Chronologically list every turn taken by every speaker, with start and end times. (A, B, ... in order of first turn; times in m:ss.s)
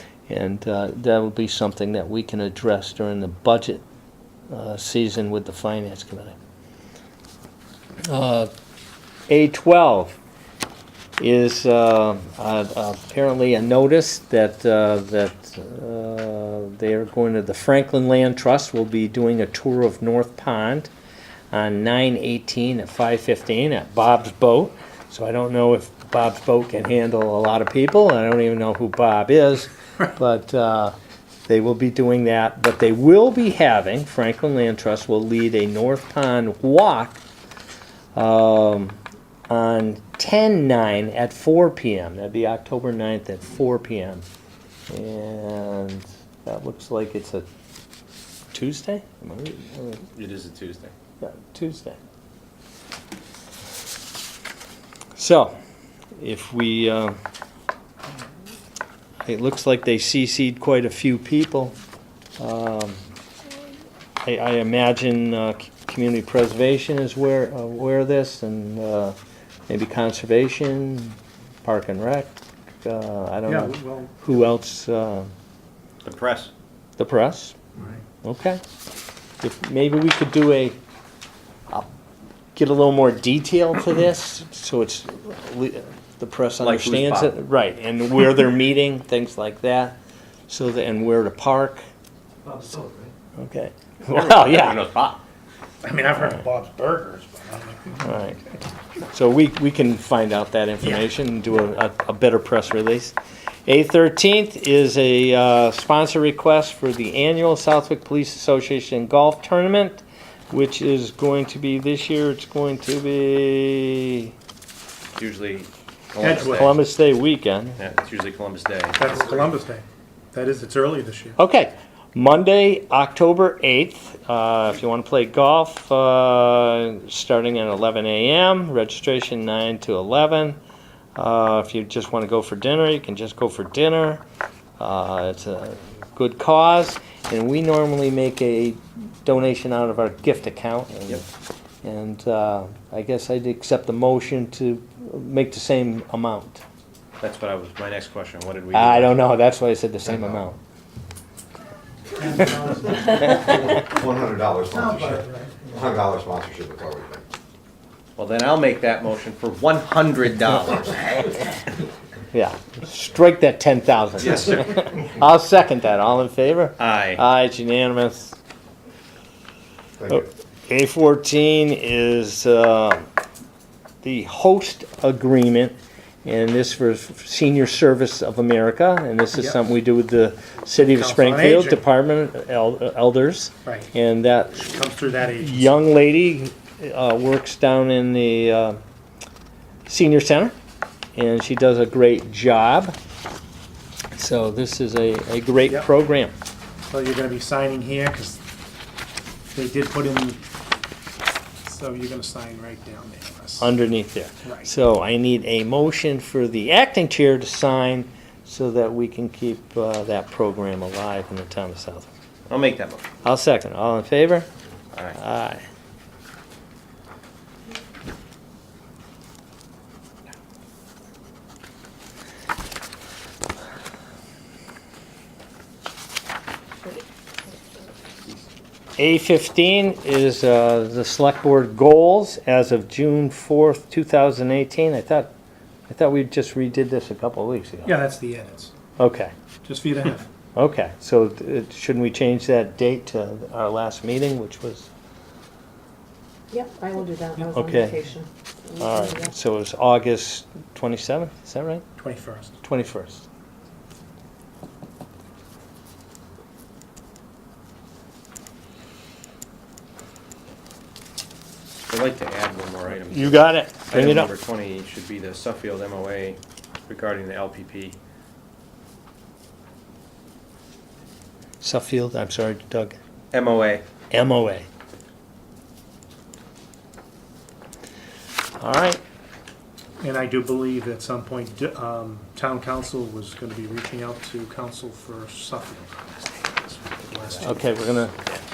0:00.3-0:03.8 A
0:04.5-0:06.4 A
0:08.1-0:08.5 A
0:09.3-0:10.2 A
0:11.2-0:20.9 A
0:21.5-0:30.9 A
0:31.5-0:37.2 A
0:38.1-0:44.2 A
0:44.9-0:47.4 A
0:48.5-0:50.1 A
0:50.1-0:50.9 B
0:51.2-0:52.0 A
0:55.2-0:55.5 A
0:56.2-0:57.2 A
0:59.2-1:01.7 A
1:02.4-1:03.0 A
1:04.2-1:09.2 A
1:09.7-1:15.3 A
1:13.4-1:14.1 C
1:16.0-1:16.5 B
1:17.0-1:17.6 A
1:18.2-1:18.6 A
1:19.4-1:20.8 A
1:22.6-1:31.8 A
1:26.6-1:27.4 B
1:32.4-1:33.1 B
1:33.4-1:34.8 A
1:34.1-1:35.2 B
1:35.8-1:38.2 C
1:38.0-1:38.4 A
1:39.1-1:54.3 A
1:55.2-1:56.8 B
1:56.2-1:56.7 C
1:56.3-1:57.8 A
1:57.8-1:59.4 B
1:59.0-2:01.4 C
2:01.4-2:10.6 A
2:11.2-2:14.2 A
2:14.8-2:21.2 A
2:21.8-2:26.6 A
2:27.2-2:29.2 B
2:28.7-2:30.6 A
2:32.2-2:33.3 C
2:33.2-2:37.2 D
2:34.7-2:35.6 C
2:38.2-2:41.5 B
2:42.3-2:48.4 A
2:44.3-2:44.7 B
2:46.8-2:47.2 B
2:50.0-2:50.2 D
2:50.1-2:53.1 A
2:54.0-3:04.8 A
3:00.9-3:01.8 C
3:03.6-3:03.9 C
3:04.6-3:05.7 C
3:05.4-3:08.8 A
3:09.9-3:10.5 A
3:11.1-3:13.0 A
3:14.1-3:16.3 A
3:16.9-3:18.4 C
3:19.5-3:20.4 C
3:21.6-3:23.7 C
3:23.6-3:32.1 A
3:24.4-3:24.7 C
3:32.5-3:33.0 B
3:33.2-3:34.5 A
3:34.9-3:35.2 B
3:35.1-3:35.6 A
3:49.0-3:55.3 A
3:55.9-3:57.9 A
3:57.8-3:58.7 C
3:59.0-3:59.3 A
3:59.6-4:00.3 C
4:00.5-4:04.9 A
4:06.5-4:09.3 E
4:07.5-4:08.1 A
4:08.8-4:11.8 A
4:12.0-4:12.5 C
4:12.6-4:13.2 A
4:21.9-4:28.0 B
4:23.0-4:24.3 A
4:31.6-4:33.0 A
4:33.3-4:33.8 B
4:34.1-4:34.7 A
4:38.6-4:39.0 A
4:40.0-4:47.6 C
4:47.2-4:47.4 B
4:47.4-4:48.2 A